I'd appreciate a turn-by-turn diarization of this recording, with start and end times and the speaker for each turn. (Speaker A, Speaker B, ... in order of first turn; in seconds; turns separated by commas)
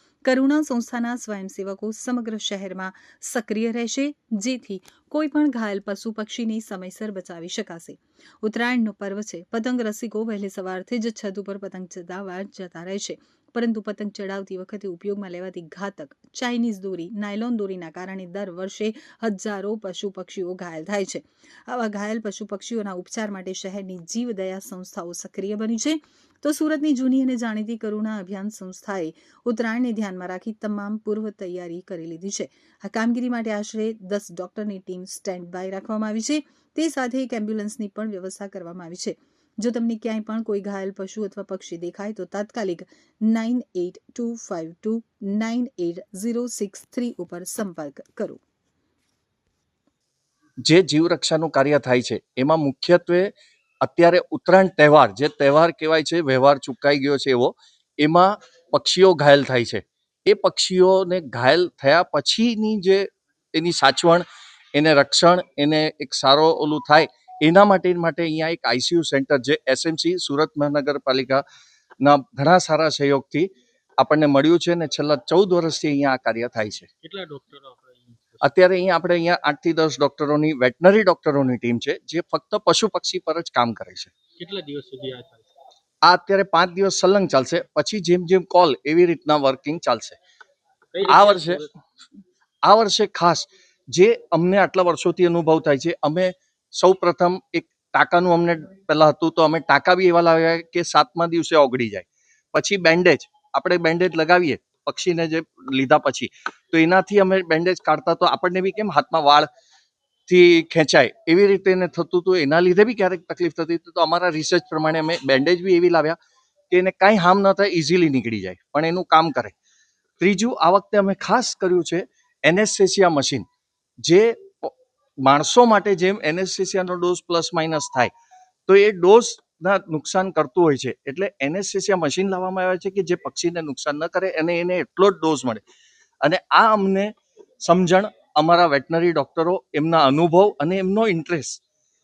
Speaker A: 0.2-48.4, Speaker B: 50.6-71.4, Speaker B: 72.0-76.9, Speaker C: 77.0-78.5, Speaker B: 78.4-84.1, Speaker C: 84.4-85.5, Speaker B: 86.0-90.2, Speaker C: 90.9-91.7, Speaker B: 91.1-91.7, Speaker B: 92.6-109.5, Speaker B: 110.3-116.2, Speaker B: 116.7-119.5, Speaker B: 120.2-123.5, Speaker B: 124.0-124.7, Speaker B: 125.2-128.1, Speaker B: 128.7-135.6, Speaker B: 136.2-137.1, Speaker B: 137.6-141.6